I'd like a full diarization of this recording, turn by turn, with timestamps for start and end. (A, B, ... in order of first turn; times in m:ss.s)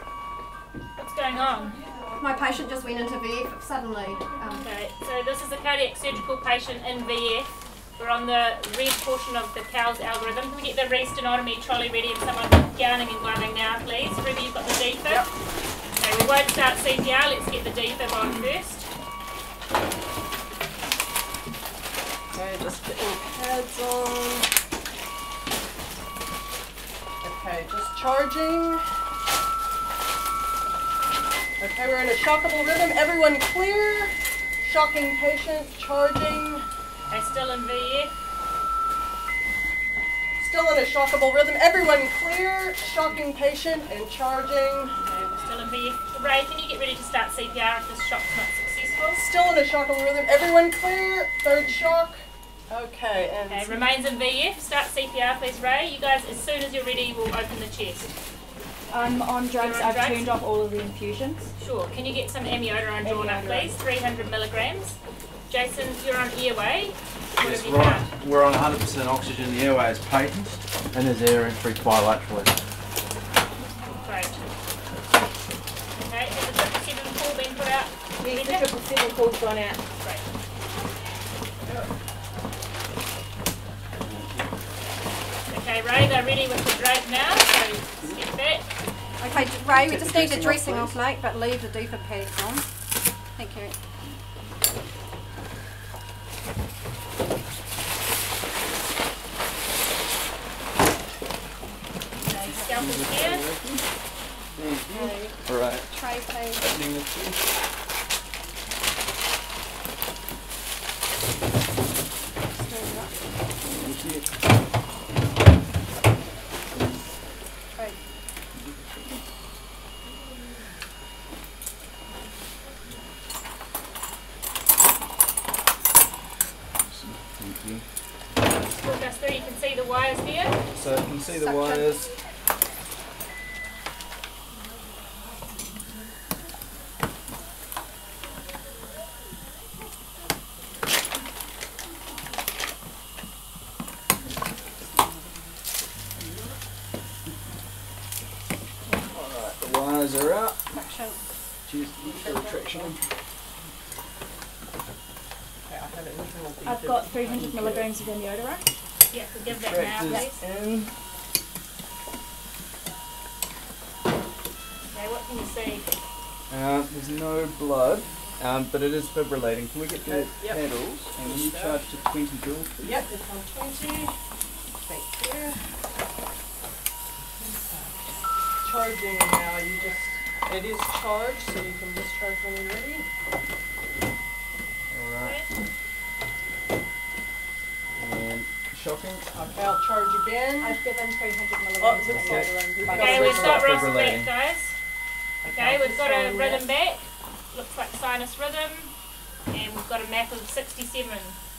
0:01.0-0:01.8 A
0:02.1-0:04.6 B
0:04.6-0:15.2 A
0:16.0-0:18.9 A
0:22.3-0:24.5 C
0:27.2-0:28.8 C
0:31.6-0:36.6 C
0:37.1-0:38.1 A
0:40.4-0:45.0 C
0:45.0-0:49.2 A
0:49.1-0:53.9 C
0:53.5-0:58.1 A
0:58.9-1:01.5 D
0:59.6-1:00.3 A
1:01.6-1:05.0 A
1:03.0-1:03.8 D
1:05.5-1:08.1 A
1:07.4-1:12.5 E
1:14.0-1:14.4 A
1:15.9-1:18.7 A
1:18.2-1:19.8 D
1:20.0-1:20.2 A
1:24.0-1:24.5 E
1:25.5-1:28.6 A
1:29.2-1:32.6 B
1:29.3-1:31.0 E
1:33.4-1:33.7 B
1:42.2-1:43.5 A
1:42.6-1:43.8 E
1:44.5-1:46.0 E
1:44.9-1:45.3 B
1:45.9-1:46.6 B
1:46.5-1:47.4 E
1:52.6-1:53.1 B
1:53.7-1:54.3 E
1:58.6-1:59.0 E
2:06.9-2:07.8 E
2:08.7-2:10.6 A
2:10.7-2:12.1 E
2:11.3-2:11.9 B
2:24.9-2:25.4 B
2:29.1-2:30.6 E
2:30.7-2:31.2 B
2:31.6-2:33.0 E
2:32.1-2:32.9 C
2:35.6-2:37.8 C
2:36.6-2:38.6 D
2:39.1-2:40.4 A
2:39.5-2:40.9 E
2:44.9-2:45.9 A
2:46.5-2:52.9 E
2:50.0-2:50.6 C
2:51.2-2:51.8 C
2:52.8-2:54.1 C
2:54.8-2:55.6 C
2:57.4-3:03.0 C
3:04.9-3:05.4 E
3:05.2-3:05.5 A
3:08.0-3:09.3 E
3:09.3-3:10.8 C
3:10.6-3:13.4 D
3:11.8-3:13.9 C
3:12.1-3:14.3 E
3:12.9-3:14.7 A
3:15.4-3:16.7 C
3:15.5-3:18.9 A
3:19.5-3:21.4 A